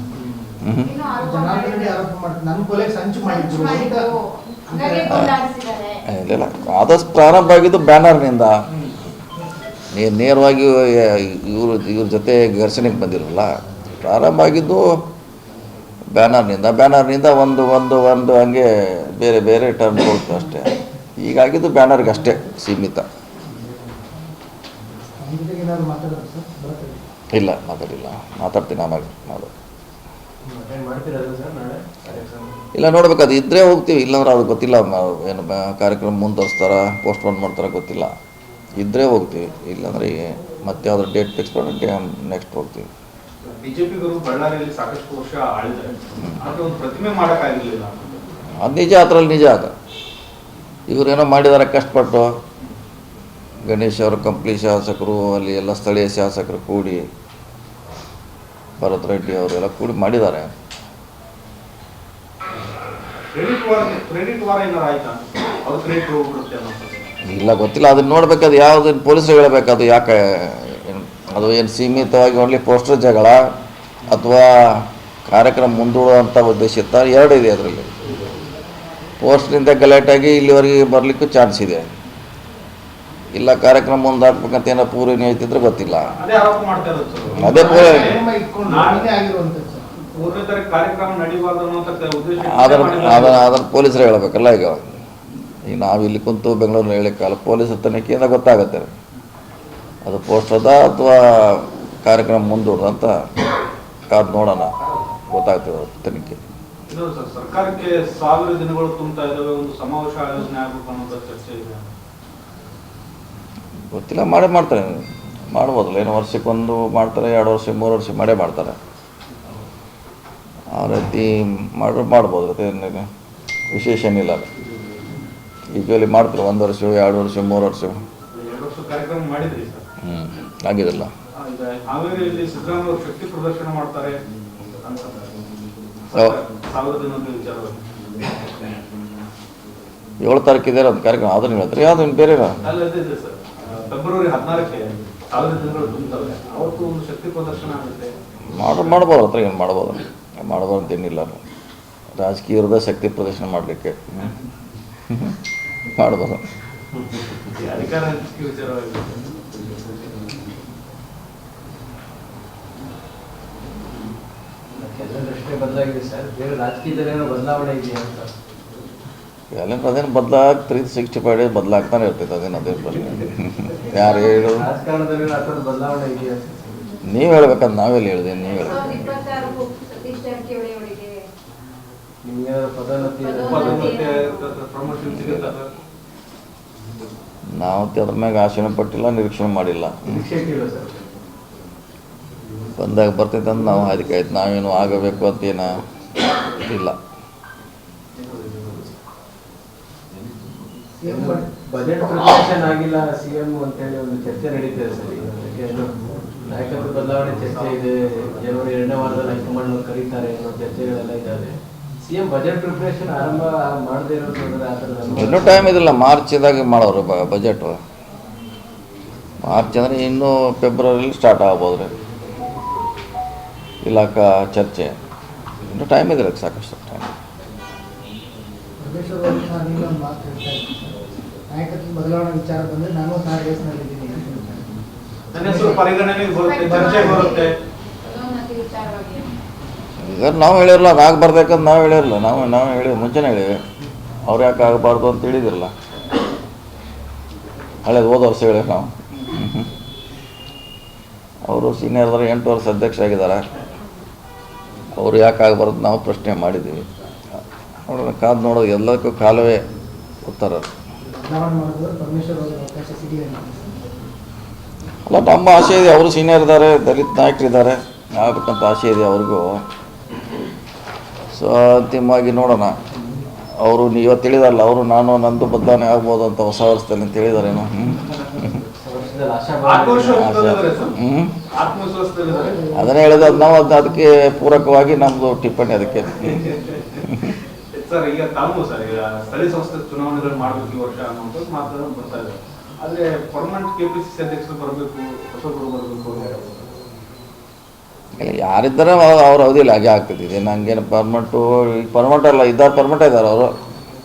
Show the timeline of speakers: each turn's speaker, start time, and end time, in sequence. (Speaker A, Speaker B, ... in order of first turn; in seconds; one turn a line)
Speaker A: 0.6-0.9
Speaker B: 0.8-2.0
Speaker C: 1.2-4.0
Speaker B: 3.2-6.0
Speaker C: 4.7-5.2
Speaker A: 5.1-5.3
Speaker A: 6.1-8.5
Speaker A: 9.9-13.5
Speaker A: 14.0-14.8
Speaker A: 16.1-23.1
Speaker C: 25.2-27.0
Speaker A: 27.3-29.5
Speaker D: 30.4-32.6
Speaker A: 32.7-38.1
Speaker A: 38.8-42.9
Speaker E: 43.4-48.2
Speaker A: 48.6-49.7
Speaker A: 50.9-52.3
Speaker A: 53.6-57.0
Speaker A: 58.8-60.5
Speaker E: 63.3-67.1
Speaker A: 67.2-73.4
Speaker A: 74.1-77.9
Speaker A: 79.2-81.8
Speaker A: 83.3-86.1
Speaker E: 86.2-89.1
Speaker A: 87.3-88.2
Speaker C: 87.4-89.9
Speaker E: 90.2-93.5
Speaker A: 92.4-95.0
Speaker A: 95.7-98.9
Speaker A: 100.0-103.1
Speaker A: 104.1-104.7
Speaker A: 105.3-106.4
Speaker E: 106.9-111.9
Speaker A: 113.9-118.8
Speaker A: 120.7-123.0
Speaker A: 123.7-124.5
Speaker A: 125.7-127.9
Speaker E: 128.3-129.8
Speaker A: 130.0-131.1
Speaker E: 131.4-134.2
Speaker E: 134.8-135.2
Speaker E: 136.1-137.8
Speaker A: 140.2-142.6
Speaker E: 142.6-148.1
Speaker A: 148.5-151.4
Speaker E: 148.7-148.9
Speaker A: 152.2-154.3
Speaker A: 155.1-156.4
Speaker D: 157.3-160.4
Speaker D: 164.8-168.3
Speaker A: 169.5-174.7
Speaker D: 173.8-176.6
Speaker A: 177.1-179.1
Speaker B: 178.5-181.2
Speaker D: 182.2-184.0
Speaker B: 183.2-184.5
Speaker E: 183.5-185.7
Speaker A: 185.0-185.5
Speaker A: 187.6-190.2
Speaker D: 190.1-191.0
Speaker A: 192.8-195.8
Speaker A: 196.6-196.9
Speaker C: 201.0-201.5
Speaker D: 201.0-205.9
Speaker E: 206.4-207.8
Speaker D: 206.5-215.8
Speaker A: 215.1-217.8
Speaker A: 219.4-221.9
Speaker A: 223.8-224.9
Speaker A: 225.7-227.1
Speaker C: 228.8-230.9
Speaker C: 231.5-234.6
Speaker E: 235.3-237.5
Speaker C: 235.3-235.9
Speaker B: 236.3-239.3
Speaker C: 236.6-237.3
Speaker A: 240.0-243.5
Speaker A: 244.2-245.7
Speaker A: 247.8-249.7
Speaker A: 251.4-253.4
Speaker A: 254.9-256.8
Speaker A: 257.9-259.6
Speaker A: 260.2-260.7
Speaker C: 261.2-263.6
Speaker A: 265.1-269.6
Speaker A: 271.3-272.8
Speaker A: 273.6-278.6
Speaker D: 278.8-280.3
Speaker E: 279.6-281.0
Speaker A: 280.1-281.3
Speaker E: 281.5-282.6
Speaker C: 282.2-283.7
Speaker A: 282.7-286.5
Speaker E: 286.3-286.6
Speaker A: 287.0-287.3
Speaker E: 287.7-296.6
Speaker A: 298.2-303.5